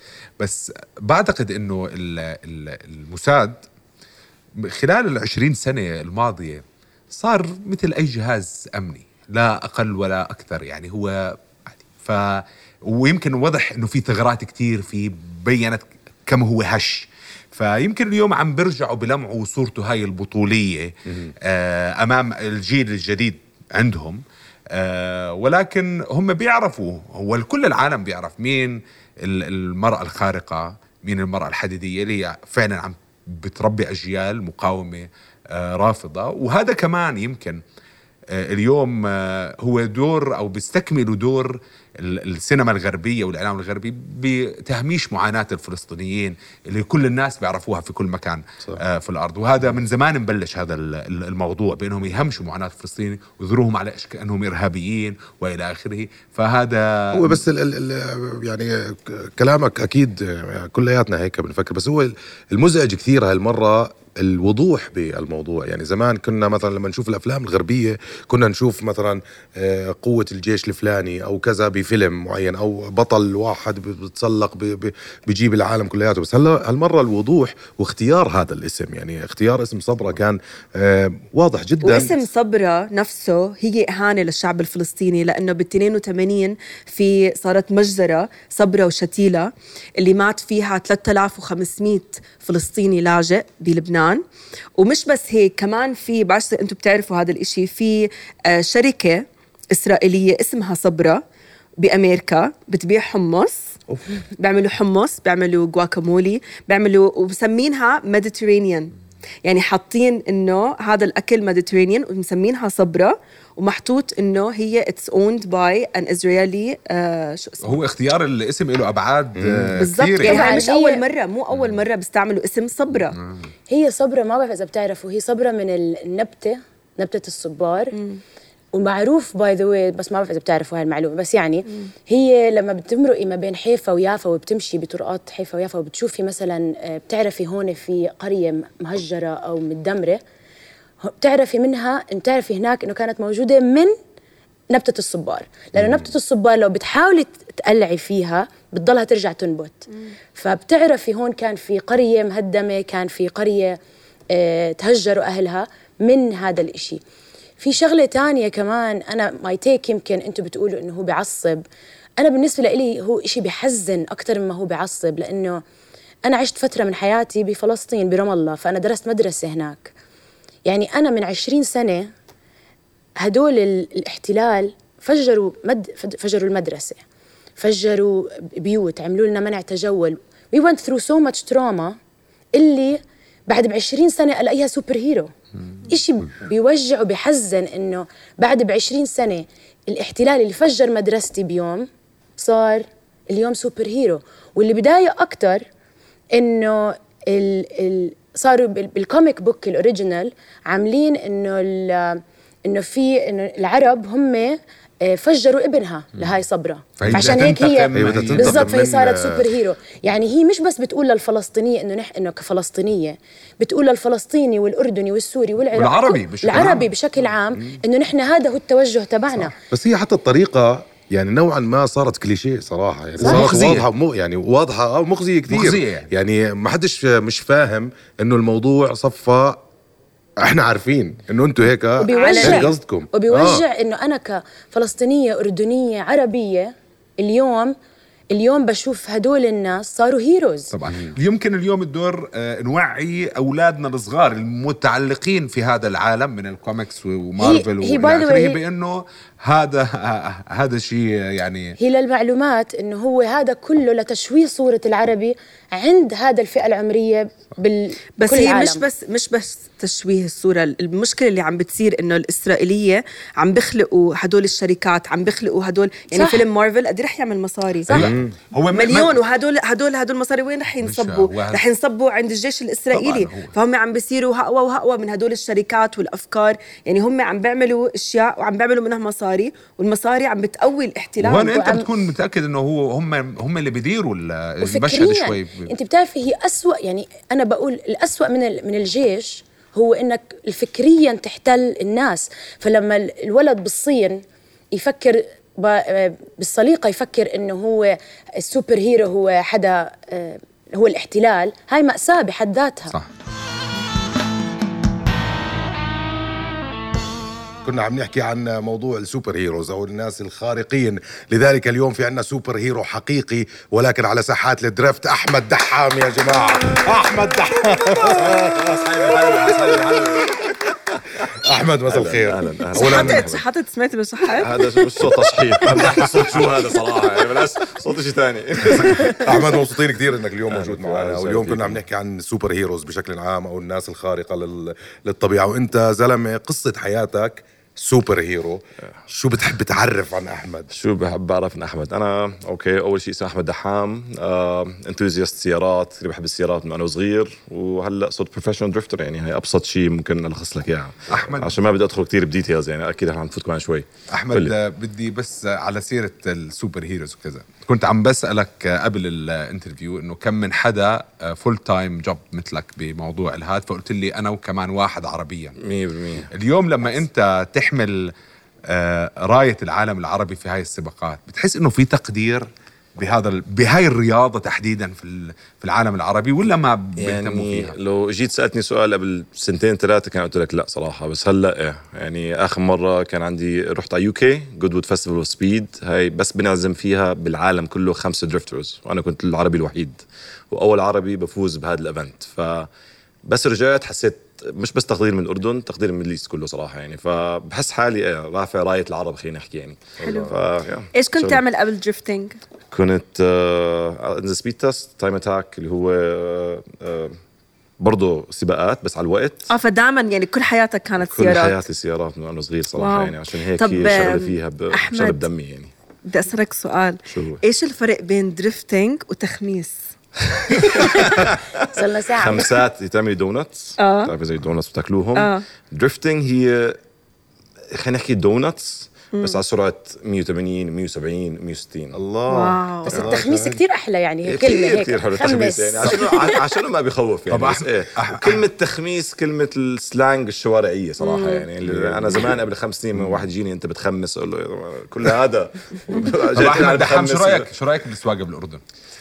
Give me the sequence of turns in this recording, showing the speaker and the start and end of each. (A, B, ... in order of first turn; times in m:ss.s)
0:00.4-0:03.6 A
0:04.6-0:11.4 A
0:12.0-0:37.6 A
0:38.3-0:57.4 A
0:57.1-1:22.2 B
1:21.8-1:34.2 C
1:34.8-1:41.2 C
1:41.8-1:43.6 C
1:44.2-1:48.9 C
1:49.4-1:57.8 C
1:57.6-2:00.5 A
1:59.4-1:59.7 B
1:59.8-2:03.2 C
2:00.2-2:01.0 D
2:03.2-2:03.5 A
2:03.7-2:08.0 D
2:08.0-2:08.2 C
2:08.7-2:20.2 D
2:21.0-2:23.9 D
2:24.7-2:33.8 D
2:25.8-2:26.1 B
2:34.3-2:37.0 D
2:37.6-2:41.6 D
2:42.2-2:45.6 D
2:46.3-2:49.9 D
2:50.7-2:52.1 D
2:53.2-2:57.0 D
2:57.6-3:02.0 D
3:02.6-3:05.3 D
3:05.9-3:15.7 D
3:16.4-3:39.5 D
3:27.0-3:29.4 A
3:27.1-3:27.4 B
3:27.9-3:29.4 B
3:35.8-3:36.9 A
3:39.7-3:49.6 B
3:43.2-3:43.5 D
3:43.2-3:43.9 A
3:45.5-3:46.1 A
3:50.4-3:53.6 B
3:52.0-3:57.8 D
3:52.1-3:52.7 C
3:58.3-4:00.7 D
4:00.7-4:11.8 A
4:07.4-4:08.6 D
4:11.8-4:18.9 D
4:18.2-4:27.9 C
4:26.1-4:26.4 D
4:27.9-4:28.2 D
4:27.9-4:29.1 A
4:27.9-4:28.3 B
4:28.7-4:41.6 C
4:30.8-4:31.6 A
4:32.9-4:33.6 A
4:41.2-4:45.7 A
4:41.5-4:41.9 D
4:44.6-5:03.0 D
5:07.6-5:20.5 B
5:18.0-5:23.4 E
5:21.3-5:23.3 B
5:22.7-5:24.8 C
5:24.3-5:29.4 E
5:25.7-5:26.0 B
5:29.2-5:40.7 B
5:30.5-5:31.8 E
5:40.7-5:54.5 E
5:51.1-5:51.5 A
5:54.1-6:05.6 A
6:05.6-6:06.3 E
6:06.3-6:08.1 A
6:08.7-6:17.8 A
6:17.0-6:32.7 E
6:33.2-6:41.4 E
6:40.0-6:40.4 C
6:40.9-6:42.4 C
6:42.7-6:47.2 E
6:47.8-6:49.5 E
6:49.5-6:51.6 C
6:51.0-6:55.7 E
6:52.8-6:55.3 C
6:56.1-6:59.8 C
6:57.1-6:57.4 E
7:00.3-7:06.8 E
7:00.6-7:01.2 C
7:01.7-7:02.5 D
7:03.8-7:04.1 C
7:05.2-7:05.4 C
7:07.7-7:12.0 E
7:09.1-7:09.4 C
7:11.9-7:13.6 B
7:12.3-7:13.1 C
7:12.9-7:16.4 D
7:14.3-7:27.5 E
7:17.3-7:18.4 A
7:21.0-7:21.5 C
7:21.6-7:22.4 B
7:23.0-7:23.2 B
7:26.3-7:28.6 A